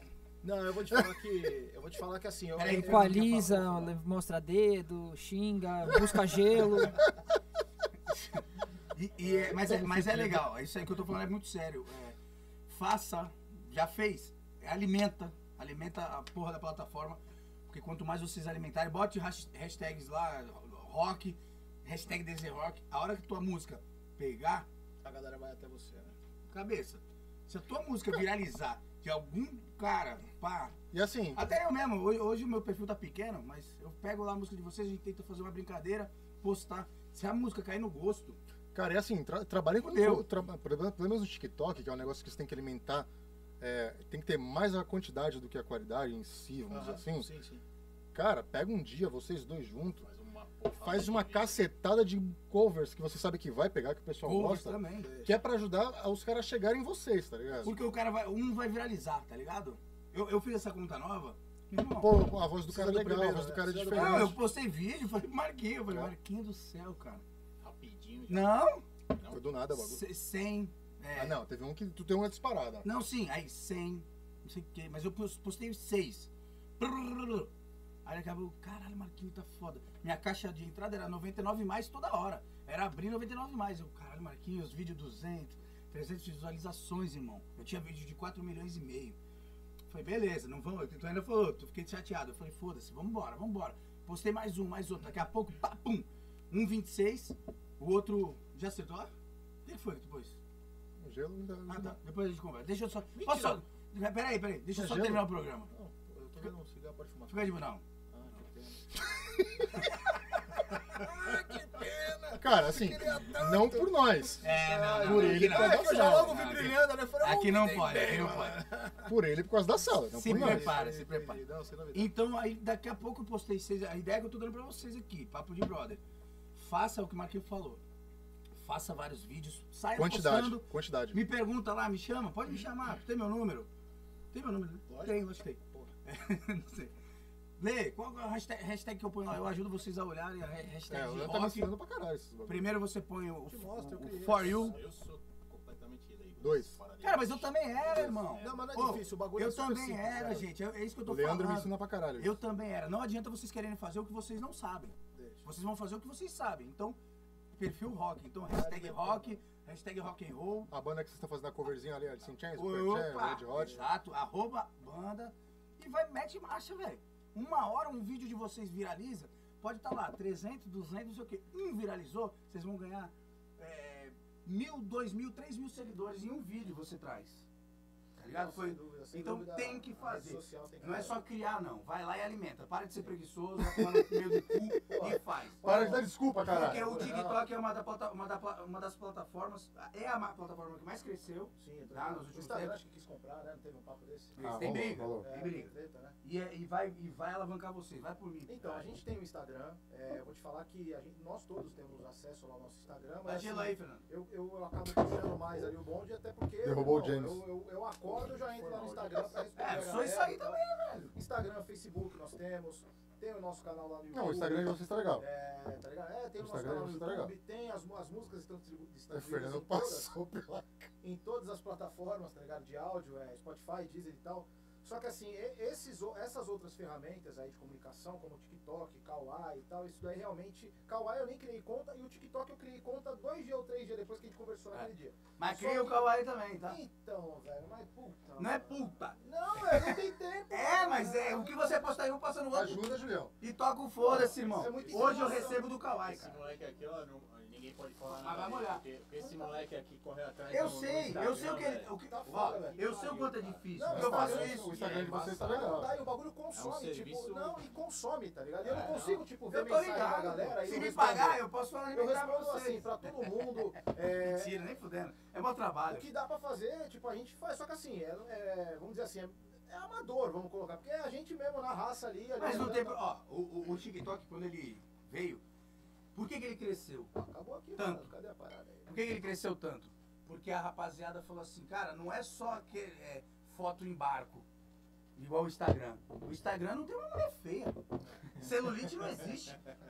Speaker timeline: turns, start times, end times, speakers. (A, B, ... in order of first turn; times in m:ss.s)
0:00.4-0:03.9 A
0:02.6-0:03.3 B
0:02.7-0:07.1 C
0:08.1-0:08.4 B
0:08.9-0:12.2 B
0:09.2-0:10.4 A
0:12.7-0:24.7 B
0:25.0-0:26.2 A
0:26.5-0:30.8 B
0:30.9-0:31.5 D
0:31.3-0:38.4 B
0:38.7-0:43.1 D
0:39.8-0:40.3 B
0:43.6-0:47.3 D
0:46.7-0:47.6 A
0:48.1-0:50.1 D
0:50.0-0:51.7 E
0:50.8-0:57.8 D
0:54.2-0:55.1 B
0:55.0-0:55.4 A
0:57.6-1:02.2 B
1:02.0-1:04.4 D
1:02.7-1:04.4 A
1:03.9-1:07.2 B
1:07.6-1:08.6 E
1:08.3-1:08.8 B
1:09.2-1:09.4 E
1:09.3-1:10.0 D
1:09.7-1:11.4 B
1:11.1-1:12.9 D
1:12.8-1:17.5 B
1:18.0-1:29.2 B
1:29.9-1:39.1 B
1:39.6-1:40.4 B
1:41.0-1:42.0 D
1:41.7-1:45.7 B
1:43.2-1:43.6 A
1:44.7-1:45.3 D
1:45.7-1:47.6 A
1:47.3-1:47.8 B
1:48.1-1:50.1 A
1:50.7-1:59.1 A
1:52.4-1:56.7 D
1:54.4-1:58.6 B
1:59.0-2:00.7 D
2:00.1-2:01.4 B
2:00.2-2:02.1 A
2:01.9-2:06.0 B
2:06.6-2:07.8 B
2:08.6-2:13.7 B
2:10.0-2:11.2 D
2:14.3-2:16.9 B
2:14.9-2:15.2 A
2:17.6-2:21.7 B
2:20.9-2:22.7 D
2:22.5-2:24.8 B
2:23.5-2:24.8 A
2:24.4-2:29.1 E
2:26.4-2:26.8 D
2:27.0-2:37.0 B
2:28.4-2:30.4 A
2:31.0-2:32.4 D
2:35.1-2:35.5 A
2:37.6-2:40.7 B
2:38.5-2:39.4 A
2:40.7-2:43.8 D
2:42.6-2:57.4 B
2:43.5-2:43.8 A
2:58.2-3:05.6 B
2:58.2-3:01.2 A
3:04.9-3:07.4 A
3:05.6-3:07.1 D
3:06.5-3:12.8 B
3:11.6-3:16.2 A
3:14.4-3:18.8 B
3:14.4-3:15.3 D
3:18.5-3:30.6 A
3:23.2-3:24.1 B
3:26.6-3:27.4 D
3:28.2-3:29.7 E
3:29.6-3:31.1 B
3:31.1-3:40.1 A
3:34.1-3:35.2 D
3:36.4-3:37.3 D
3:39.1-3:40.9 D
3:41.0-4:01.8 A
3:54.7-3:56.8 B
3:58.4-3:59.2 B
3:59.7-4:00.0 B
4:00.5-4:06.4 B
4:02.5-4:03.3 D
4:04.1-4:05.6 A
4:04.6-4:11.9 E
4:08.1-4:08.8 B
4:09.2-4:09.6 A
4:10.5-4:14.8 B
4:12.1-4:12.8 A
4:12.4-4:17.6 E
4:13.7-4:24.7 A
4:13.9-4:15.9 D
4:18.6-4:19.3 E
4:19.5-4:23.1 B
4:20.4-4:20.9 E
4:24.2-4:26.1 B
4:25.9-4:33.0 A
4:32.4-4:35.4 B
4:36.1-4:37.1 B
4:37.1-4:38.9 A
4:37.8-4:38.1 B
4:38.9-4:44.5 B
4:45.2-4:49.6 B